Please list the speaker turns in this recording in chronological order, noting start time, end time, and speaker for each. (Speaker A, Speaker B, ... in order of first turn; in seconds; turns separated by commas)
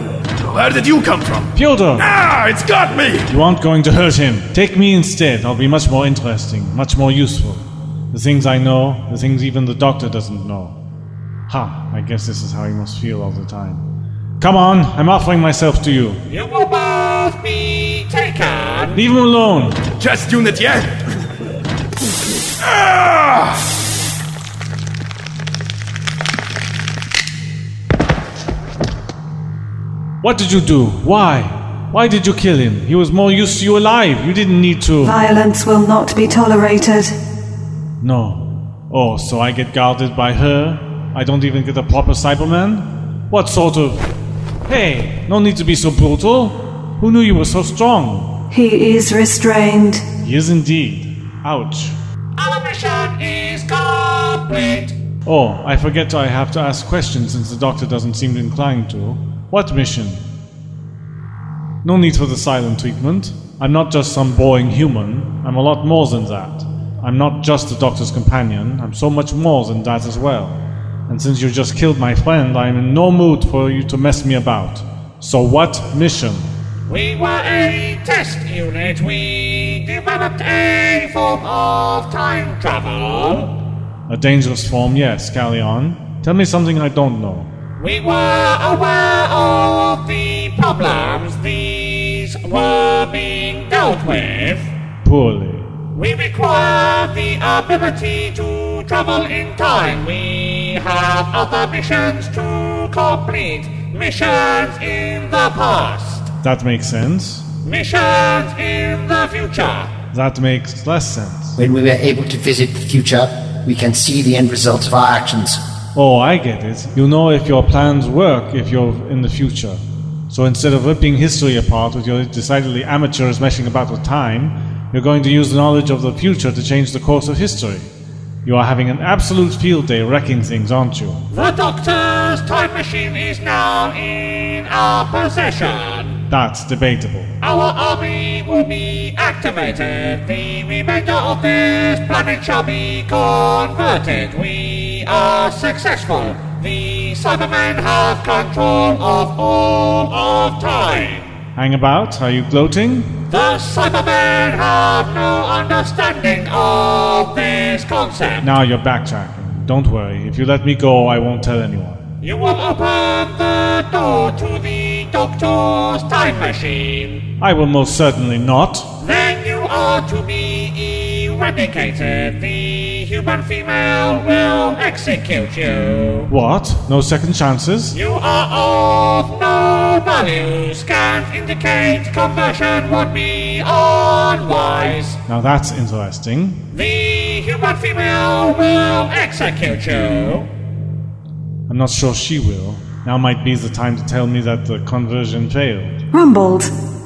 Speaker A: 0.3-3.3, Speaker B: 1.5-2.1, Speaker B: 3.3-10.8, Speaker B: 11.5-13.8, Speaker B: 14.4-16.2, Speaker C: 16.3-19.0, Speaker B: 18.9-19.8, Speaker A: 20.0-21.0, Speaker A: 22.6-23.6, Speaker B: 30.2-35.1, Speaker D: 35.0-37.1, Speaker B: 38.0-44.0, Speaker B: 44.7-48.4, Speaker D: 48.5-50.0, Speaker B: 50.2-52.0, Speaker C: 52.4-54.9, Speaker B: 55.2-60.2, Speaker B: 61.8-76.5, Speaker C: 76.9-83.5, Speaker B: 84.1-87.5, Speaker C: 87.8-94.7, Speaker B: 95.0-95.7, Speaker C: 95.9-106.3, Speaker B: 106.4-107.5, Speaker C: 107.6-109.9, Speaker B: 110.1-111.6, Speaker E: 111.6-115.6, Speaker B: 115.9-127.9, Speaker B: 128.4-131.2, Speaker C: 131.3-136.2, Speaker B: 136.3-137.3, Speaker C: 137.4-151.4, Speaker B: 151.6-153.2, Speaker C: 153.3-158.5, Speaker B: 158.4-162.0, Speaker C: 162.2-167.2, Speaker B: 167.4-168.9, Speaker C: 169.0-176.3, Speaker B: 176.3-178.0, Speaker C: 177.9-185.2, Speaker B: 185.3-186.6, Speaker C: 186.7-190.5, Speaker B: 191.7-196.0, Speaker D: 196.1-196.7